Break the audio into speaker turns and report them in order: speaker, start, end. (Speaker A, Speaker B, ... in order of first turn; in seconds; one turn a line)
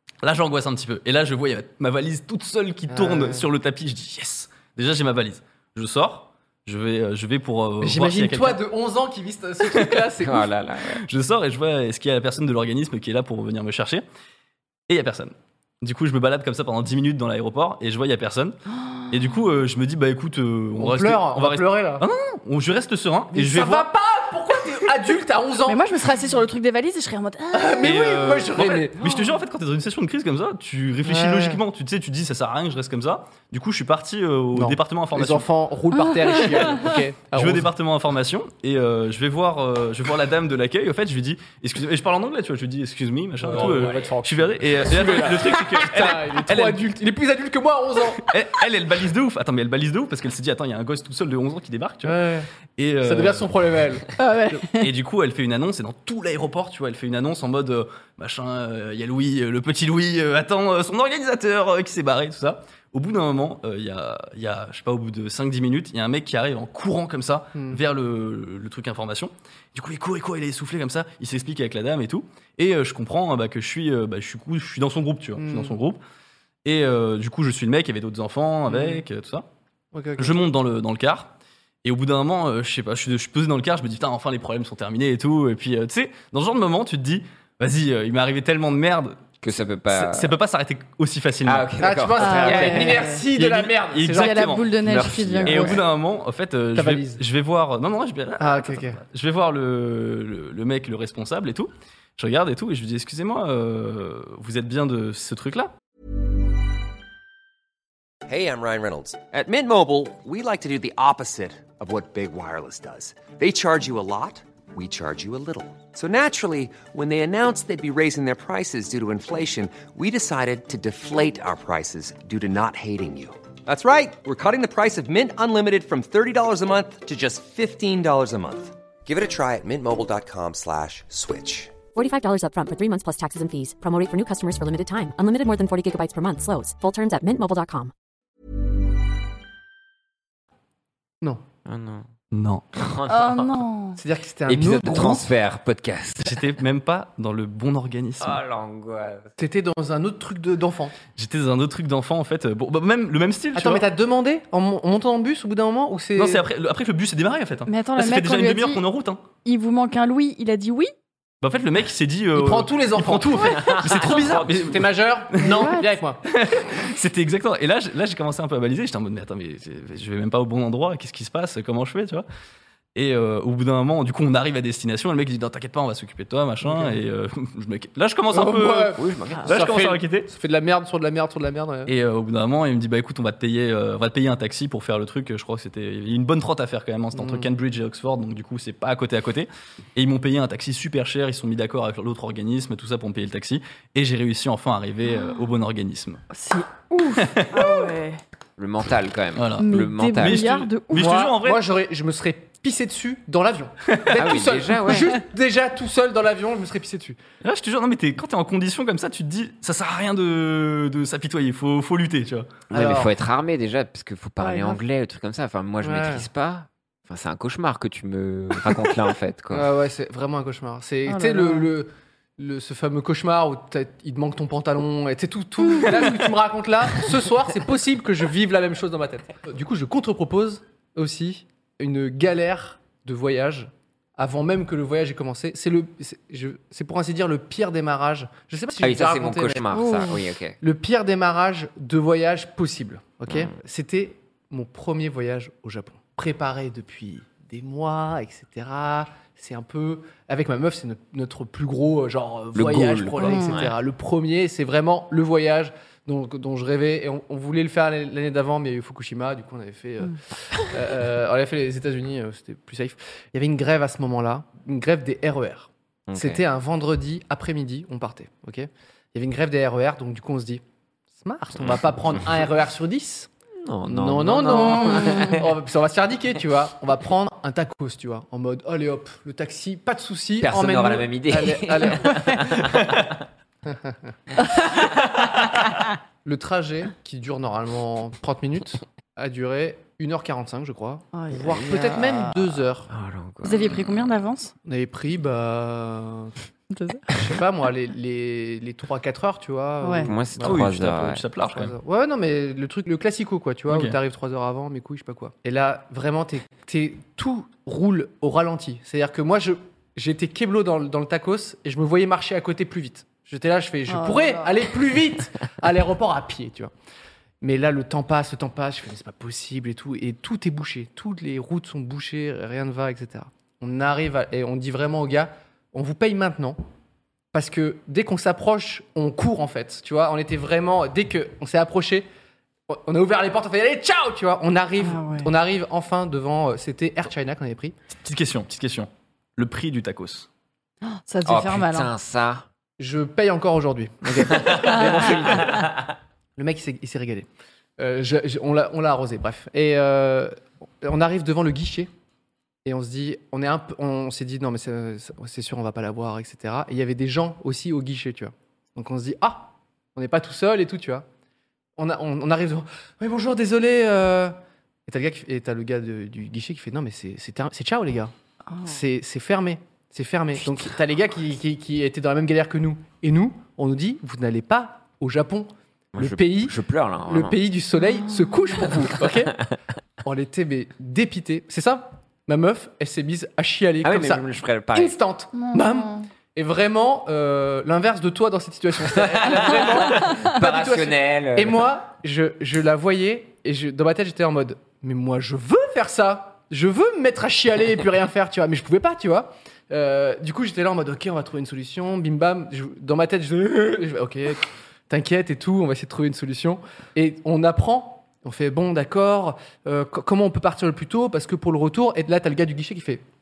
Speaker A: 0.2-8.6
Speaker B: 2.9-3.5
Speaker B: 7.8-10.5
Speaker A: 9.6-10.1
Speaker C: 10.2-11.0
Speaker A: 10.9-14.1
Speaker A: 14.9-18.6
Speaker A: 19.1-23.9
Speaker B: 20.8-22.1
Speaker B: 23.3-25.8
Speaker D: 25.7-27.9
Speaker B: 27.5-29.2
Speaker A: 27.8-35.5
Speaker B: 31.0-31.6
Speaker B: 34.5-37.7
Speaker D: 35.9-36.5
Speaker A: 37.3-46.8
Speaker B: 43.4-48.3
Speaker C: 43.5-44.0
Speaker A: 48.2-52.2
Speaker B: 52.0-52.5
Speaker A: 52.8-53.5
Speaker B: 53.0-54.6
Speaker D: 54.2-54.8
Speaker A: 54.8-76.0
Speaker B: 67.5-67.8
Speaker B: 75.4-75.7
Speaker A: 76.6-79.5
Speaker B: 78.7-79.0
Speaker B: 79.9-80.4
Speaker A: 80.2-81.3
Speaker A: 81.8-89.2
Speaker C: 89.4-90.3
Speaker A: 89.9-91.7
Speaker C: 91.4-93.1
Speaker B: 91.8-94.5
Speaker D: 92.2-93.2
Speaker A: 93.3-105.7
Speaker D: 94.1-95.8
Speaker C: 94.8-95.8
Speaker B: 96.7-97.2
Speaker B: 98.4-99.0
Speaker E: 108.3-131.7
Speaker F: 131.9-137.9
Speaker C: 141.6-142.1
Speaker A: 142.3-142.9
Speaker C: 142.7-143.6
Speaker D: 143.1-144.0
Speaker B: 144.0-145.2
Speaker C: 144.5-146.4
Speaker A: 146.2-148.4
Speaker C: 148.2-149.3
Speaker B: 149.4-150.9
Speaker A: 151.2-153.8
Speaker B: 153.6-156.4
Speaker A: 156.2-159.2
Speaker D: 157.7-158.8
Speaker D: 159.4-160.9
Speaker A: 161.4-165.7
Speaker B: 162.3-166.2
Speaker C: 163.7-164.4
Speaker D: 165.4-165.8
Speaker A: 166.3-172.2
Speaker A: 172.9-180.3
Speaker B: 176.6-177.0
Speaker B: 178.3-181.9
Speaker C: 178.9-179.6
Speaker A: 181.9-196.2
Speaker B: 187.1-187.5
Speaker D: 195.1-195.4
Speaker D: 196.3-198.2
Speaker A: 197.2-197.6
Speaker C: 198.6-200.5
Speaker A: 199.4-201.6
Speaker D: 199.6-201.1
Speaker B: 200.9-207.2
Speaker A: 203.9-204.2
Speaker C: 204.2-205.1
Speaker A: 207.4-212.6
Speaker B: 212.7-213.1
Speaker C: 212.7-219.7
Speaker D: 214.4-214.8
Speaker B: 215.8-216.3
Speaker B: 219.5-239.8
Speaker D: 221.1-221.7
Speaker C: 238.8-240.6
Speaker D: 239.7-240.2
Speaker B: 240.6-270.6
Speaker C: 243.3-243.6
Speaker C: 252.6-253.7
Speaker A: 252.6-253.0
Speaker D: 253.2-253.6
Speaker C: 266.1-266.4
Speaker B: 271.2-273.3
Speaker C: 273.6-275.5
Speaker B: 273.9-282.9
Speaker D: 274.8-275.1
Speaker C: 280.4-283.2
Speaker B: 283.6-284.0
Speaker C: 284.7-285.5
Speaker B: 286.2-292.9
Speaker D: 291.1-291.4
Speaker C: 291.4-294.1
Speaker D: 293.4-294.5
Speaker B: 294.6-296.3
Speaker D: 296.7-297.1
Speaker B: 297.1-300.6
Speaker D: 299.8-300.1
Speaker C: 300.0-301.2
Speaker A: 300.4-301.7
Speaker B: 301.5-316.7
Speaker A: 303.7-304.0
Speaker D: 313.9-314.5
Speaker B: 317.4-326.6
Speaker B: 327.3-332.1
Speaker B: 332.7-337.7
Speaker D: 334.8-335.3
Speaker A: 338.0-340.3
Speaker D: 340.8-341.9
Speaker C: 341.2-342.4
Speaker B: 342.8-351.9
Speaker C: 344.4-345.7
Speaker B: 352.6-361.1
Speaker B: 361.8-364.3
Speaker B: 364.9-368.1
Speaker B: 368.6-376.6
Speaker C: 375.9-377.4
Speaker B: 377.1-379.5
Speaker B: 380.0-413.0
Speaker C: 383.8-385.0
Speaker D: 385.3-386.0
Speaker C: 389.0-391.7